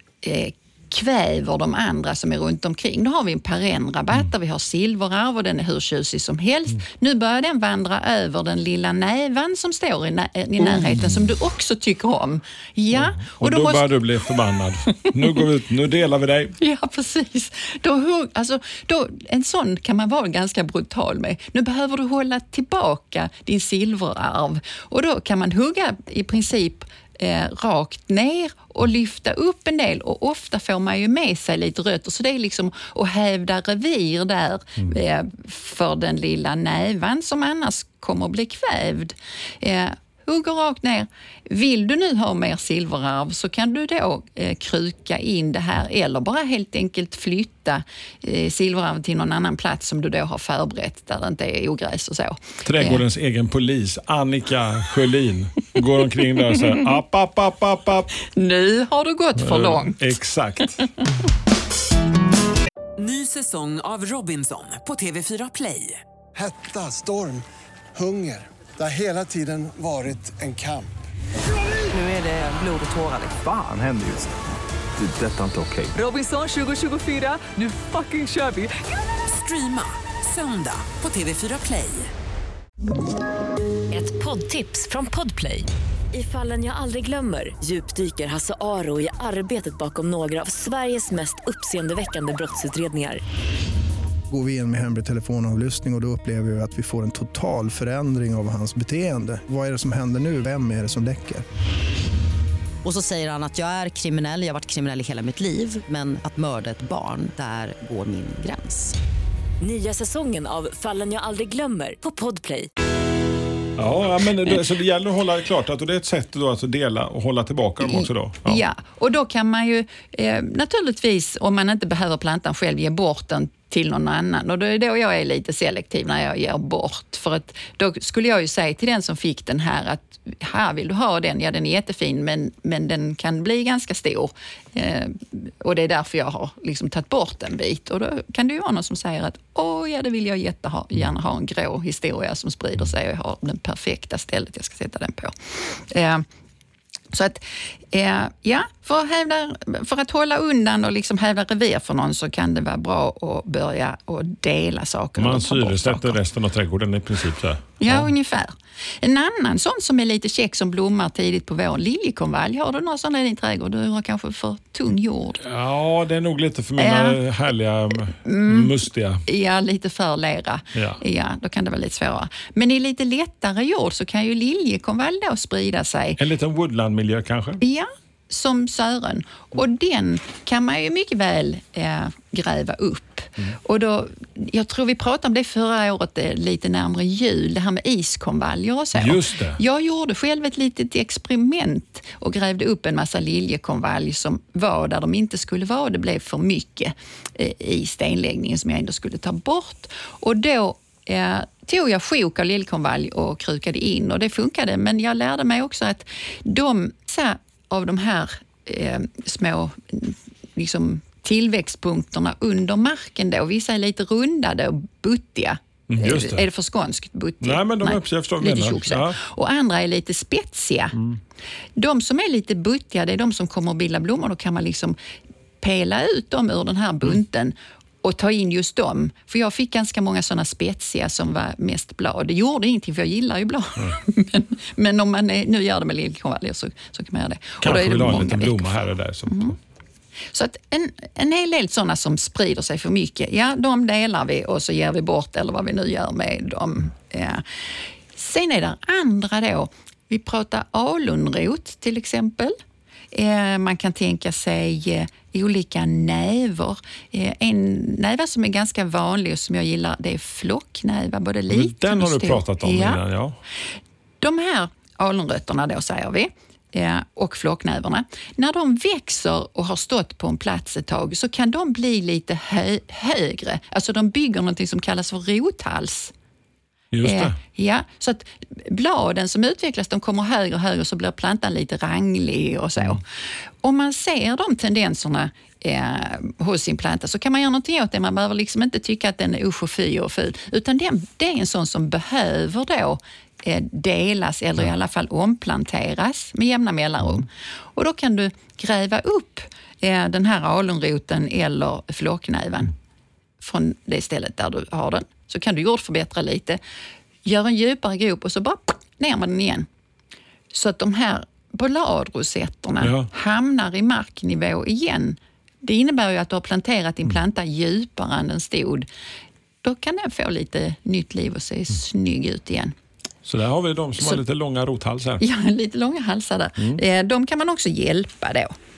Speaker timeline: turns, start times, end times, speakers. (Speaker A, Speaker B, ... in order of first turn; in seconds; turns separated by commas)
Speaker A: 0.2-13.9, Speaker B: 10.6-11.2, Speaker B: 12.9-16.6, Speaker A: 16.6-53.0, Speaker B: 52.6-58.1, Speaker A: 56.5-56.8, Speaker A: 58.3-60.1, Speaker B: 59.4-60.9, Speaker C: 63.0-66.0, Speaker D: 66.3-67.4, Speaker D: 68.0-70.9, Speaker C: 71.9-73.4, Speaker E: 73.3-74.3, Speaker E: 75.0-76.0, Speaker C: 75.9-82.1, Speaker F: 83.9-93.2, Speaker G: 94.3-101.5, Speaker H: 102.8-109.0, Speaker F: 109.6-112.7, Speaker B: 113.8-118.6, Speaker A: 117.8-146.2, Speaker A: 147.1-156.2, Speaker B: 155.2-158.1, Speaker A: 157.8-165.4, Speaker B: 165.4-169.2, Speaker A: 166.8-167.2, Speaker A: 168.2-176.2, Speaker B: 170.7-171.0, Speaker B: 176.2-177.6, Speaker A: 177.6-221.0, Speaker B: 188.9-189.6, Speaker B: 215.9-216.5, Speaker B: 217.4-219.2, Speaker A: 221.8-225.0, Speaker A: 225.6-239.6, Speaker B: 237.6-239.6, Speaker A: 240.3-252.6, Speaker A: 253.1-263.0, Speaker B: 261.5-263.4, Speaker A: 264.2-276.1, Speaker B: 276.9-277.4, Speaker A: 277.0-283.0, Speaker A: 283.6-302.7, Speaker A: 303.4-306.6, Speaker A: 307.2-309.7, Speaker A: 310.5-318.9, Speaker B: 312.8-313.1, Speaker A: 319.6-322.7, Speaker B: 323.2-325.2, Speaker A: 325.2-328.5